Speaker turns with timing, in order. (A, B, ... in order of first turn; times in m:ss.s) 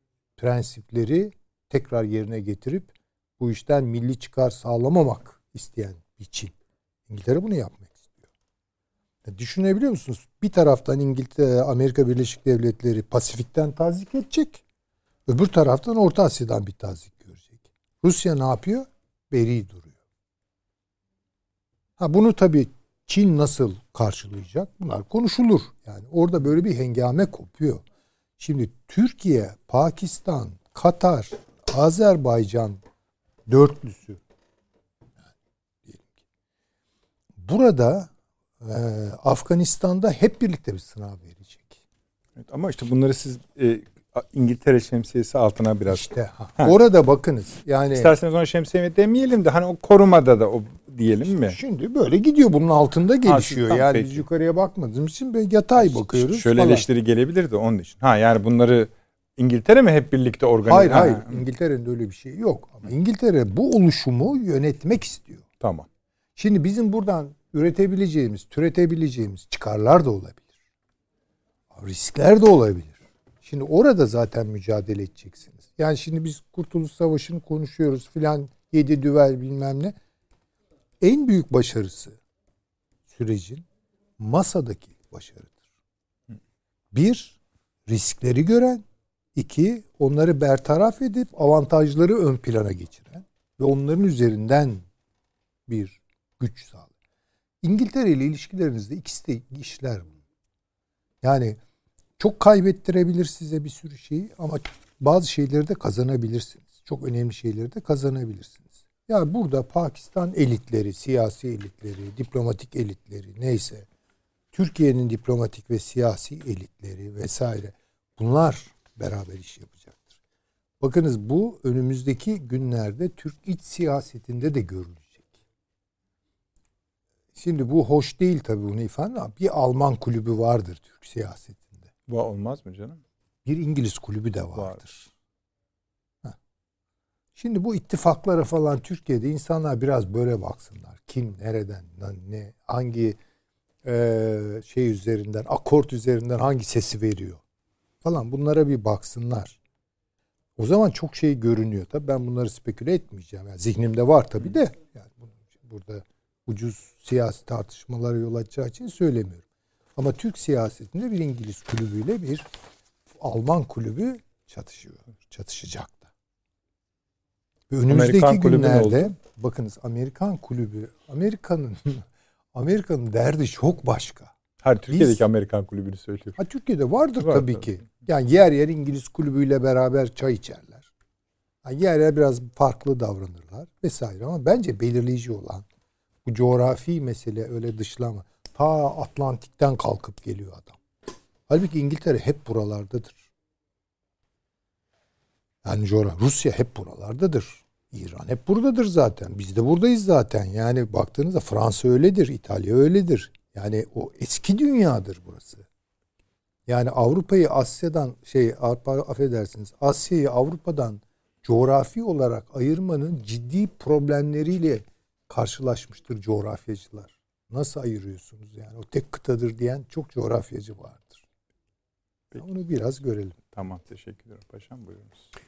0:00.4-0:06.5 A
0:07.1-0:08.2 A
0:09.2-0:14.6 A
0:15.3-0:19.9 A
0:22.0-0:27.8 A
0:28.4-0:32.8 A
0:33.5-0:34.2 A
0:35.8-0:36.1 A
0:37.4-0:41.8 A
0:42.4-0:46.7 B
0:45.9-0:48.1 A
0:47.9-0:51.6 B
0:51.4-0:56.8 A
0:53.2-0:54.2 B
0:55.8-1:01.4 B
1:00.6-1:05.4 A
1:05.6-1:05.9 B
1:06.4-1:10.5 A
1:11.7-1:19.9 A
1:21.0-1:22.2 A
1:23.1-1:23.6 A
1:24.2-1:25.6 A
1:26.9-1:27.4 A
1:27.9-1:28.8 A
1:29.3-1:34.8 A
1:35.7-1:36.9 A
1:37.6-1:40.1 A
1:41.2-1:41.6 A
1:42.2-1:53.8 A
1:54.5-2:00.1 A
2:00.8-2:05.3 A
2:07.3-2:11.8 A
2:12.1-2:13.0 B
2:13.4-2:15.1 A
2:17.4-2:23.2 A
2:23.8-2:27.4 A
2:28.0-2:29.6 A
2:30.6-2:39.4 A
2:40.0-2:42.5 A
2:43.2-2:46.1 A
2:47.7-2:54.3 A
2:47.9-2:49.1 B
2:54.6-2:56.4 B
2:54.9-2:55.2 A
2:56.4-3:00.8 A
2:57.2-2:57.8 B
3:01.6-3:05.6 A
3:06.2-3:10.8 A
3:11.5-3:13.2 A
3:15.6-3:25.6 A
3:26.7-3:41.2 A
3:42.3-3:43.4 A
3:43.5-3:45.2 B